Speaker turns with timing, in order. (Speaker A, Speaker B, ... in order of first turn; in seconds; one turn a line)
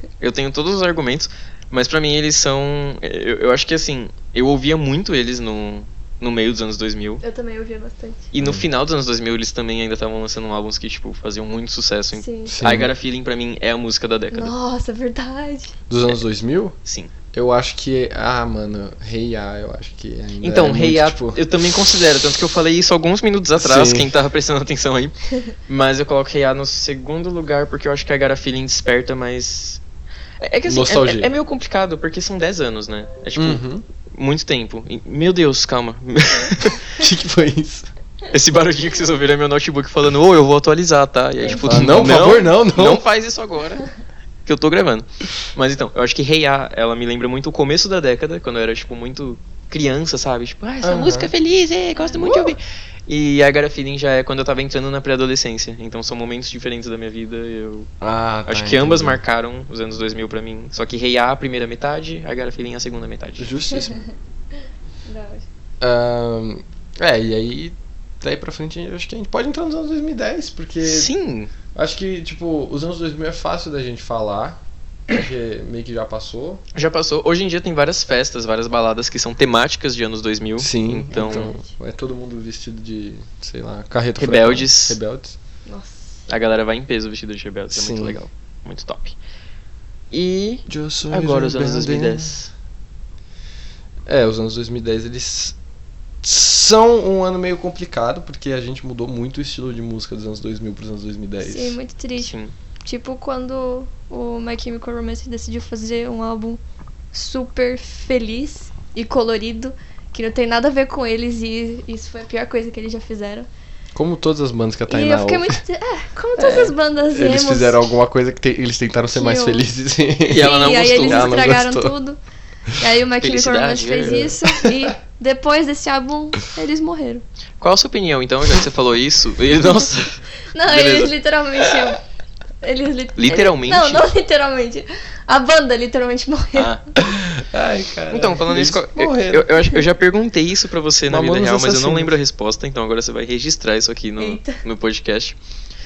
Speaker A: 0.2-7.2
Speaker B: 7.2-8.3
Speaker A: 8.3-14.5
Speaker C: 8.4-8.7
Speaker B: 12.1-12.6
Speaker C: 12.5-12.9
Speaker B: 14.3-15.7
Speaker C: 15.9-16.8
Speaker A: 16.8-17.1
Speaker C: 17.3-21.4
Speaker A: 20.4-25.1
Speaker C: 23.6-24.1
Speaker A: 25.7-29.8
Speaker A: 30.4-36.9
Speaker C: 30.7-31.3
Speaker C: 33.4-33.8
Speaker C: 37.0-37.9
Speaker A: 38.3-43.9
Speaker B: 41.4-41.9
Speaker C: 41.5-43.0
Speaker A: 44.5-57.9
Speaker C: 50.8-51.3
Speaker C: 52.2-52.5
Speaker C: 58.0-59.2
Speaker A: 58.5-63.5
Speaker C: 63.4-64.0
Speaker B: 63.7-64.1
Speaker B: 65.0-65.4
Speaker C: 65.8-71.1
Speaker A: 70.8-71.5
Speaker C: 71.7-76.6
Speaker A: 76.8-81.5
Speaker C: 80.6-85.3
Speaker B: 81.1-81.7
Speaker A: 84.2-85.0
Speaker B: 85.7-86.1
Speaker A: 86.3-89.2
Speaker C: 87.7-88.2
Speaker A: 90.1-92.5
Speaker C: 90.7-92.3
Speaker C: 94.1-95.5
Speaker C: 96.2-101.8
Speaker B: 101.4-102.3
Speaker A: 102.2-102.5
Speaker B: 102.8-106.6
Speaker B: 107.1-113.5
Speaker C: 113.9-115.6
Speaker B: 114.9-117.8
Speaker A: 116.4-116.7
Speaker C: 117.1-121.9
Speaker B: 119.1-119.7
Speaker A: 120.2-121.4
Speaker B: 120.3-122.2
Speaker B: 122.8-127.2
Speaker A: 123.2-124.3
Speaker C: 124.0-124.9
Speaker A: 127.6-131.9
Speaker B: 130.5-132.0
Speaker B: 132.6-136.8
Speaker A: 133.2-134.1
Speaker A: 136.5-136.8
Speaker C: 137.0-139.7
Speaker A: 138.1-145.3
Speaker C: 141.1-142.2
Speaker B: 144.2-144.6